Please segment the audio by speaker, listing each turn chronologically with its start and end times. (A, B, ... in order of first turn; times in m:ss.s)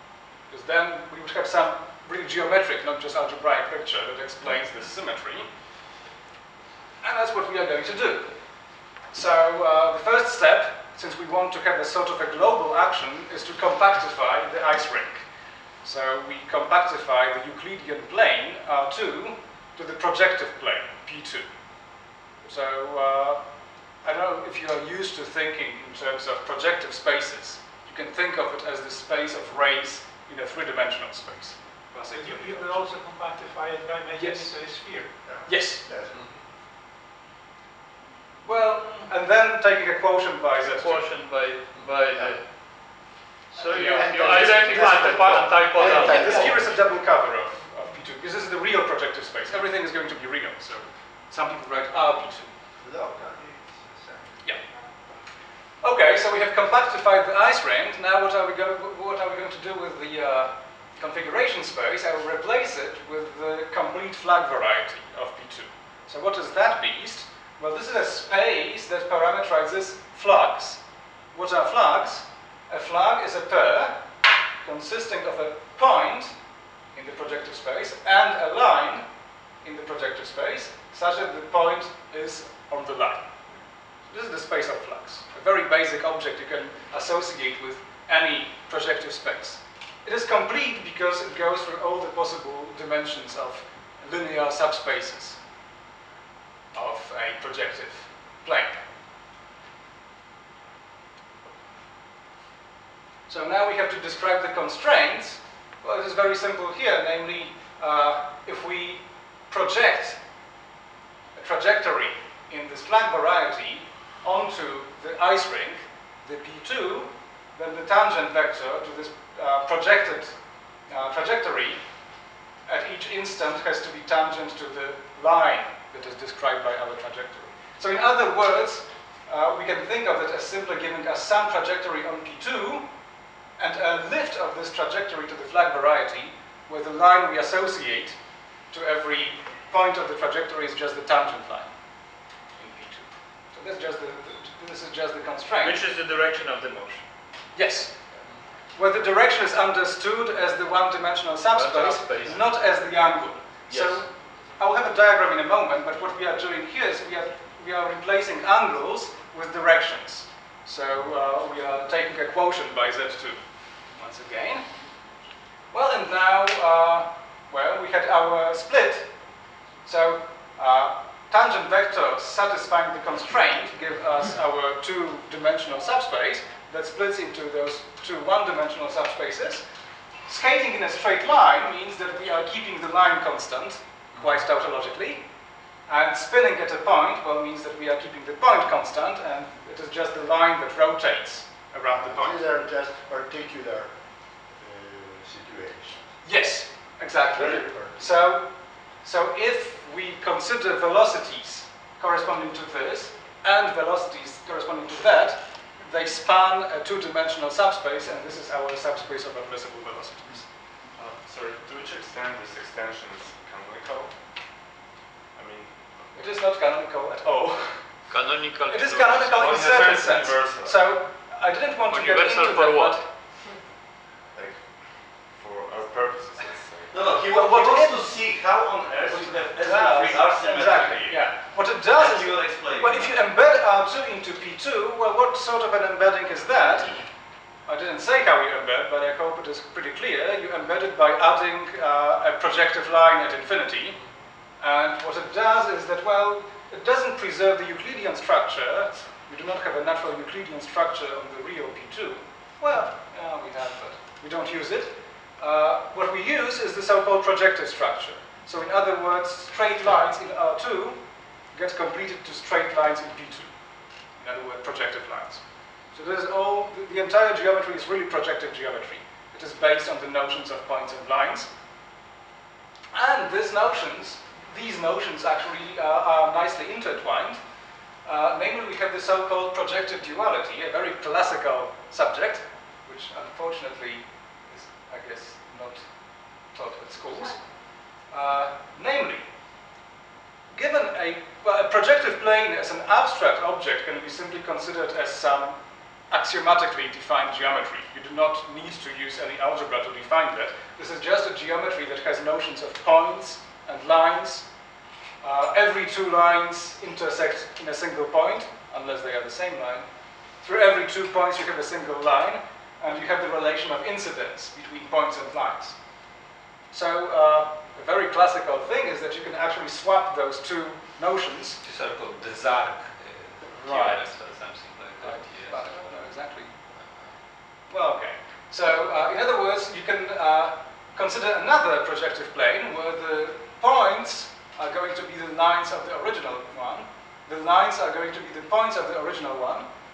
0:00.5-0:05.5 A
0:07.0-0:08.3 A
0:09.1-0:15.2 A
0:15.8-0:21.5 A
0:22.4-0:23.4 A
0:24.0-0:32.8 A
0:32.0-0:35.2 B
0:34.2-0:34.5 A
0:35.2-0:36.2 C
0:35.4-0:35.8 A
0:36.1-0:36.4 D
0:38.4-0:41.1 A
0:40.6-0:42.4 E
0:41.7-0:42.2 D
0:43.5-0:46.5 E
0:43.6-0:47.0 C
0:43.7-0:52.5 A
0:52.8-0:54.6 C
0:55.8-1:10.8 A
1:11.3-1:14.0 A
1:14.6-1:16.3 A
1:16.9-1:19.0 A
1:19.6-1:23.3 A
1:24.1-1:35.4 A
1:36.7-1:38.8 A
1:43.3-1:50.2 A
1:51.3-2:00.3 A
2:00.9-2:01.8 A
2:02.6-2:12.9 A
2:13.6-2:18.2 A
2:18.7-2:21.7 A
2:22.6-2:25.8 A
2:25.6-2:27.0 E
2:27.5-2:28.0 A
2:28.7-2:44.7 A
2:31.5-2:32.4 E
2:33.7-2:34.0 F
2:45.7-2:49.1 A
2:49.8-2:59.6 A
3:00.3-3:05.2 A
3:05.9-3:12.5 A
3:11.9-3:13.9 C
3:14.5-3:16.1 C
3:16.2-3:30.4 A
3:17.1-3:18.1 C
3:31.0-3:34.2 G
3:35.3-3:36.1 G
3:36.1-3:37.8 A
3:38.1-3:39.2 E
3:38.2-3:39.2 D
3:38.7-3:43.1 A
3:39.3-3:41.0 G
3:41.9-3:43.0 E
3:44.3-3:47.0 G
3:46.9-3:51.3 F
3:47.3-3:48.2 A
3:49.0-3:57.0 A
3:51.9-3:53.2 F
3:57.7-4:04.0 A
4:04.6-4:21.0 A
4:21.5-4:23.5 A
4:24.2-4:31.5 A
4:32.9-4:37.4 A
4:38.0-4:45.8 A
4:46.5-4:47.4 A
4:48.1-4:49.2 A
4:50.5-5:04.5 A
5:05.2-5:09.9 A
5:10.4-5:15.8 A
5:16.7-5:21.6 A
5:21.6-5:26.1 D
5:23.6-5:24.1 A
5:25.0-5:26.5 A
5:27.7-5:39.7 A